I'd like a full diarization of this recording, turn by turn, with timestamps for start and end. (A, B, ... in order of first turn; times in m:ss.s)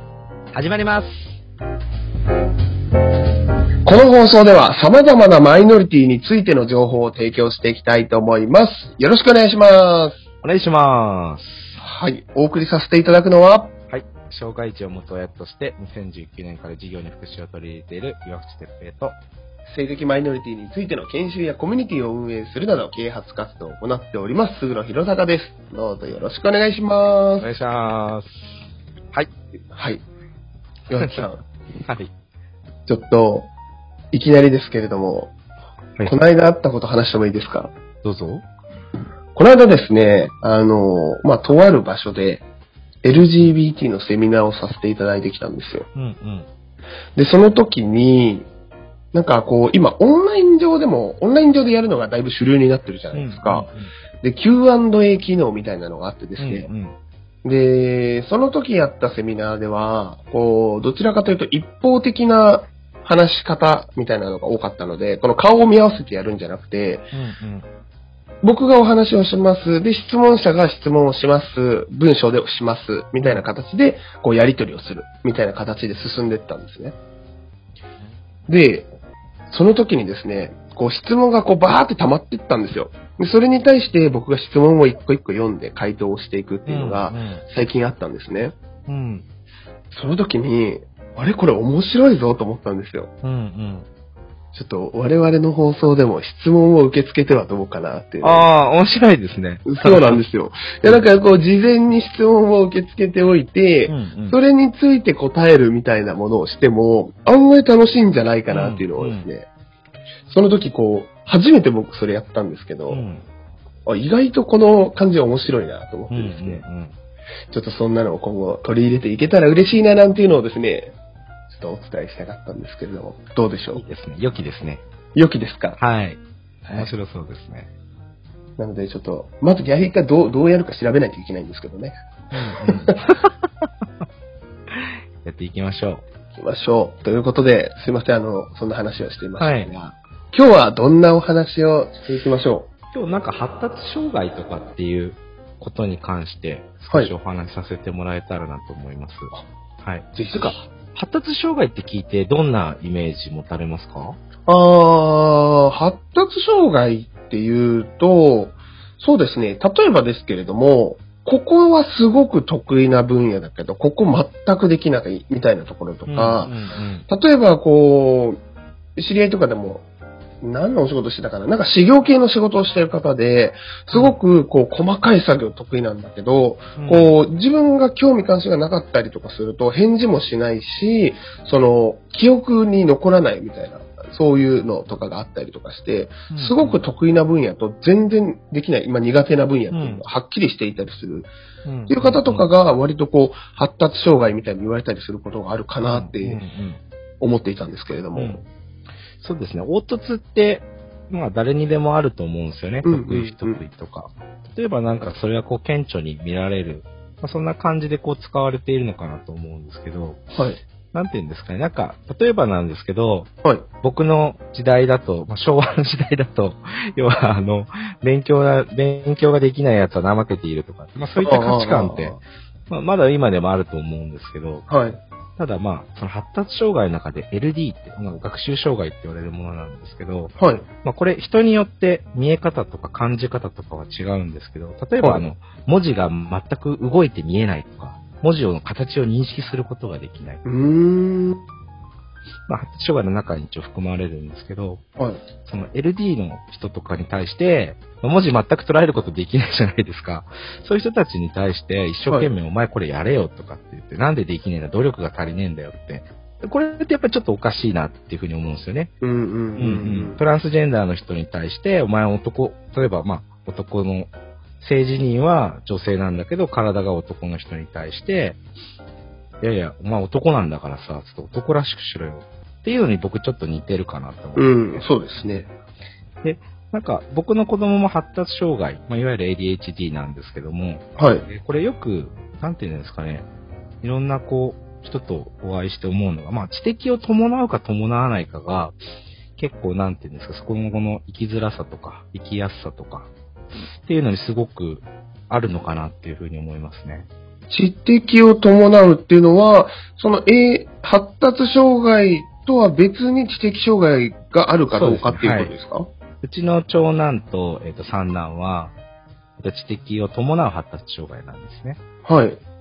0:00.5-0:01.4 A
0:03.8-0:10.2 B
0:10.4-0:11.8 A
0:11.8-0:13.7 B
0:13.9-0:19.2 A
0:19.7-0:27.5 B
0:27.4-0:28.5 A
0:29.7-0:30.0 B
0:30.9-0:31.4 B
0:31.0-0:31.2 A
0:31.8-0:32.1 A
0:32.9-0:33.5 B
0:34.1-0:35.3 B
0:36.0-0:37.7 B
0:38.0-0:38.4 A
0:39.3-0:42.4 B
0:43.0-0:45.8 B
0:45.9-0:46.5 A
0:47.2-0:48.5 B
0:49.1-0:53.7 B
0:53.1-0:53.9 A
0:54.2-0:56.7 B
0:56.4-0:57.0 A
0:57.4-1:07.1 B
1:07.1-1:07.6 A
1:08.4-1:17.0 B
1:18.5-1:18.9 B
1:19.5-1:28.5 B
1:26.6-1:27.4 A
1:28.9-1:29.2 A
1:29.9-1:33.1 B
1:33.2-1:33.9 A
1:34.5-1:38.5 B
1:38.2-1:40.2 A
1:39.7-1:49.5 B
1:43.9-1:44.4 A
1:48.5-1:49.3 A
1:50.3-1:53.0 B
1:52.9-1:53.2 A
1:53.8-1:56.6 B
1:56.1-1:56.9 A
1:57.5-2:00.9 B
2:01.5-2:03.8 B
2:03.7-2:04.8 A
2:05.1-2:05.8 B
2:05.8-2:07.7 A
2:08.6-2:11.9 B
2:12.3-2:14.0 A
2:12.6-2:12.9 B
2:14.7-2:16.0 A
2:16.3-2:22.7 B
2:19.4-2:19.7 A
2:22.9-2:34.2 A
2:30.1-2:30.6 B
2:34.5-2:46.5 B
2:46.1-2:47.0 A
2:47.1-2:48.4 B
2:49.0-2:49.8 B
2:50.4-3:11.3 B
2:53.9-2:54.2 A
2:56.8-2:57.2 A
3:06.3-3:06.8 A
3:09.7-3:10.0 A
3:11.6-3:12.5 A
3:11.9-3:16.4 B
3:15.8-3:16.8 A
3:17.2-3:18.4 B
3:18.1-3:18.4 A
3:19.2-3:30.2 A
3:22.8-3:23.6 B
3:30.3-3:30.6 B
3:30.9-3:33.3 A
3:33.8-3:44.6 A
3:41.2-3:42.2 B
3:44.7-3:45.0 B
3:45.4-4:00.4 A
3:50.4-3:50.6 B
3:55.0-3:55.2 B
4:00.4-4:01.4 B
4:02.5-4:04.8 A
4:05.4-4:18.9 A
4:19.0-4:20.2 B
4:19.6-4:28.4 A
4:29.4-4:35.5 A
4:34.4-4:35.4 B
4:36.2-4:43.3 A
4:41.0-4:41.2 B
4:43.8-4:48.7 A
4:49.4-4:53.1 A
4:53.8-4:57.1 A
4:57.5-5:05.9 B
5:04.7-5:05.5 A
5:06.2-5:08.7 A
5:09.4-5:11.8 A
5:12.0-5:12.4 B